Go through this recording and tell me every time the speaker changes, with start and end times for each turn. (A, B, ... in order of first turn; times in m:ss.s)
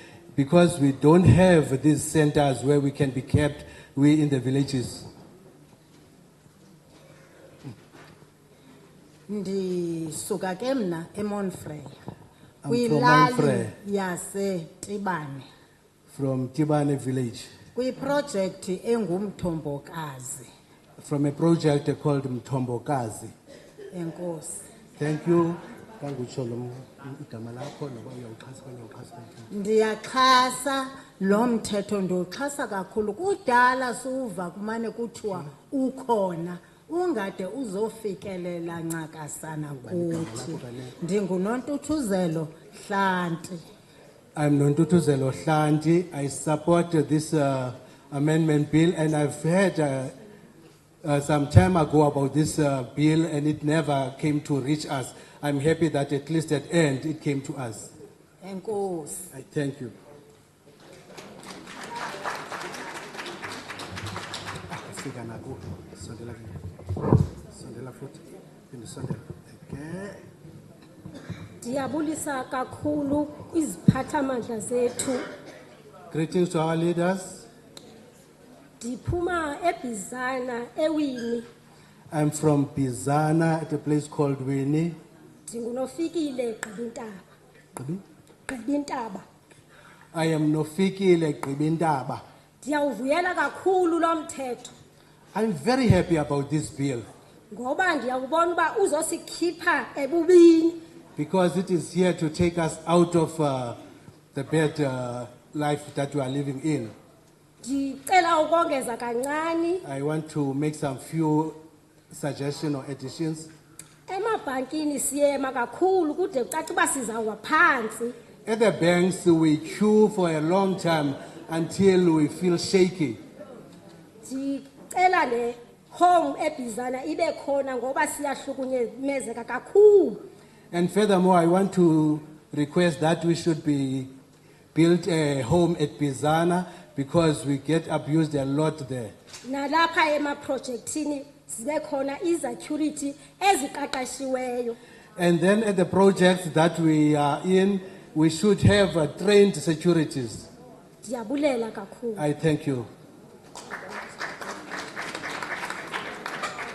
0:00.3-0:05.0 A
0:09.3-0:11.9 B
0:12.6-0:13.7 A
0:12.7-0:15.4 B
0:16.1-0:17.5 A
0:17.7-0:20.5 B
0:21.0-0:23.3 A
0:23.9-0:24.6 B
0:25.0-0:29.5 A
0:29.5-0:43.6 B
0:39.8-0:41.0 A
0:44.4-0:50.1 A
0:51.0-0:57.9 A
0:58.4-0:59.3 B
0:59.3-0:59.9 A
1:04.7-1:06.6 A
1:07.5-1:10.2 A
1:11.6-1:15.3 C
1:16.1-1:17.4 A
1:18.8-1:21.4 C
1:22.1-1:25.0 A
1:25.5-1:27.2 C
1:27.8-1:28.0 A
1:28.5-1:29.2 C
1:30.1-1:32.2 A
1:32.6-1:34.7 C
1:35.3-1:37.0 A
1:37.5-1:40.8 C
1:41.2-1:43.8 A
1:44.3-1:46.9 A
1:47.6-1:49.8 C
1:49.8-1:51.6 A
1:52.1-1:53.5 A
1:54.1-1:58.2 C
1:58.4-2:03.2 A
2:04.2-2:10.2 C
2:10.7-2:14.1 A
2:14.7-2:19.1 A
2:19.4-2:24.8 C
2:25.2-2:30.5 A
2:31.0-2:32.2 C
2:32.2-2:32.9 A